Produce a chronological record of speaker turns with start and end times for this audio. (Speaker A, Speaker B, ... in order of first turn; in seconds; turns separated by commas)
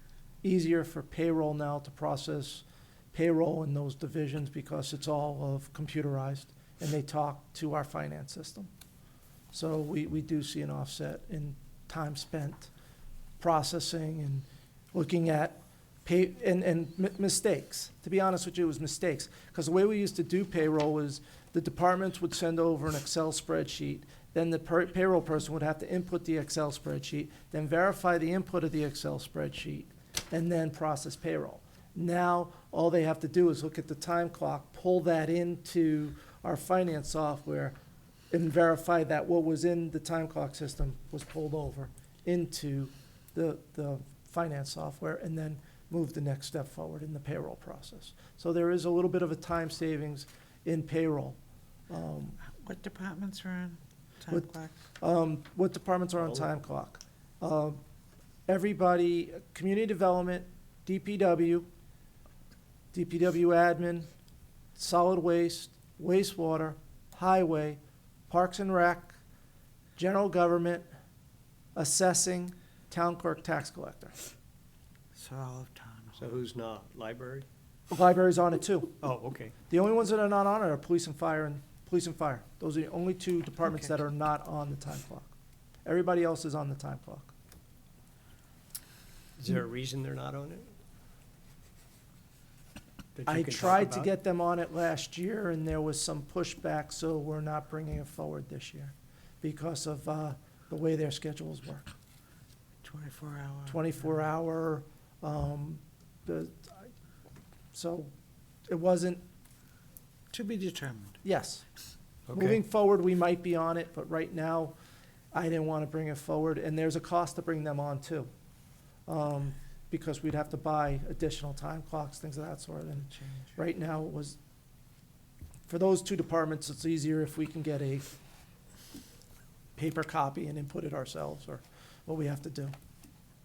Speaker A: 0.4-8.7, Speaker A: 9.5-12.7, Speaker A: 13.4-37.8, Speaker A: 38.3-51.4, Speaker A: 51.9-52.4, Speaker B: 52.4-54.8, Speaker A: 54.3-57.8, Speaker A: 58.5-61.7, Speaker A: 62.9-64.1, Speaker A: 64.8-69.2, Speaker A: 70.0-70.9, Speaker A: 71.8-74.2, Speaker B: 75.2-76.4, Speaker C: 76.2-77.5, Speaker A: 77.9-79.0, Speaker C: 79.0-79.5, Speaker A: 79.7-85.3, Speaker A: 85.8-87.3, Speaker C: 89.4-90.7, Speaker C: 93.2-94.1, Speaker A: 93.3-101.9, Speaker B: 102.8-103.9, Speaker A: 103.7-106.9, Speaker A: 107.7-108.1, Speaker A: 108.7-109.2, Speaker B: 110.3-111.2, Speaker A: 111.2-111.6, Speaker C: 112.3-112.6, Speaker A: 112.3-114.8, Speaker A: 115.3-118.3, Speaker A: 119.1-124.4, Speaker B: 123.2-123.5, Speaker A: 125.7-128.2, Speaker A: 129.8-132.7